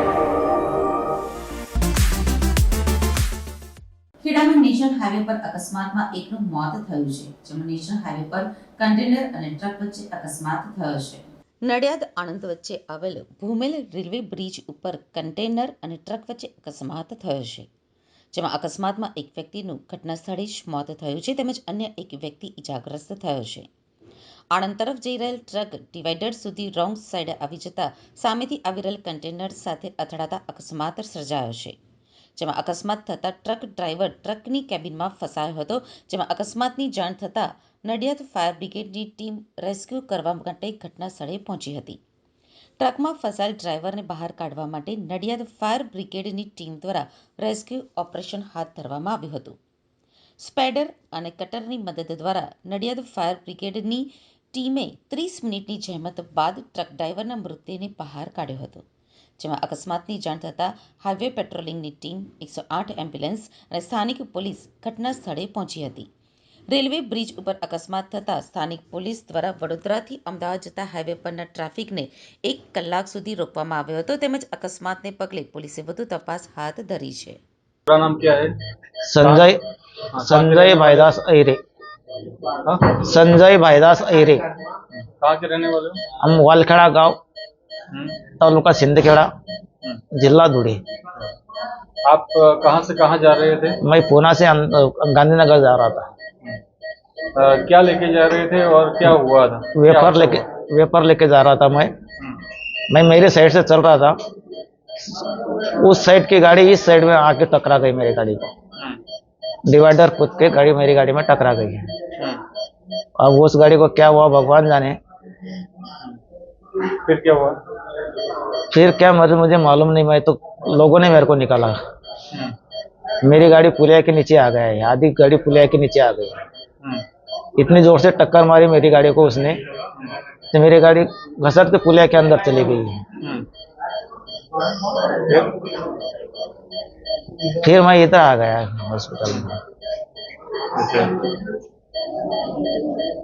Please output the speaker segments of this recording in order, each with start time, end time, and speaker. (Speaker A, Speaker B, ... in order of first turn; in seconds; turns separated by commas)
Speaker A: 4.2-17.7, Speaker A: 18.3-23.7, Speaker A: 24.5-31.8, Speaker A: 32.4-42.0, Speaker A: 42.8-49.6, Speaker A: 50.4-58.8, Speaker A: 59.4-66.1, Speaker A: 66.7-77.4, Speaker B: 77.9-78.5, Speaker C: 79.0-79.6, Speaker B: 79.2-79.5, Speaker B: 80.1-81.1, Speaker C: 80.2-81.6, Speaker B: 82.6-83.0, Speaker C: 82.9-84.4, Speaker B: 84.9-86.0, Speaker C: 86.2-87.2, Speaker B: 87.9-88.2, Speaker C: 88.4-89.3, Speaker C: 90.1-90.8, Speaker B: 92.0-93.8, Speaker C: 93.8-96.1, Speaker B: 97.3-100.5, Speaker C: 99.8-102.0, Speaker C: 102.9-104.2, Speaker C: 105.8-108.5, Speaker C: 109.7-111.9, Speaker B: 112.2-112.4, Speaker C: 113.2-115.0, Speaker B: 116.8-117.6, Speaker C: 118.7-121.8, Speaker B: 122.3-122.5, Speaker C: 123.2-126.3, Speaker C: 127.6-129.6, Speaker C: 130.5-133.1, Speaker B: 133.2-133.5, Speaker B: 134.6-135.8, Speaker C: 137.5-139.6, Speaker B: 140.7-141.4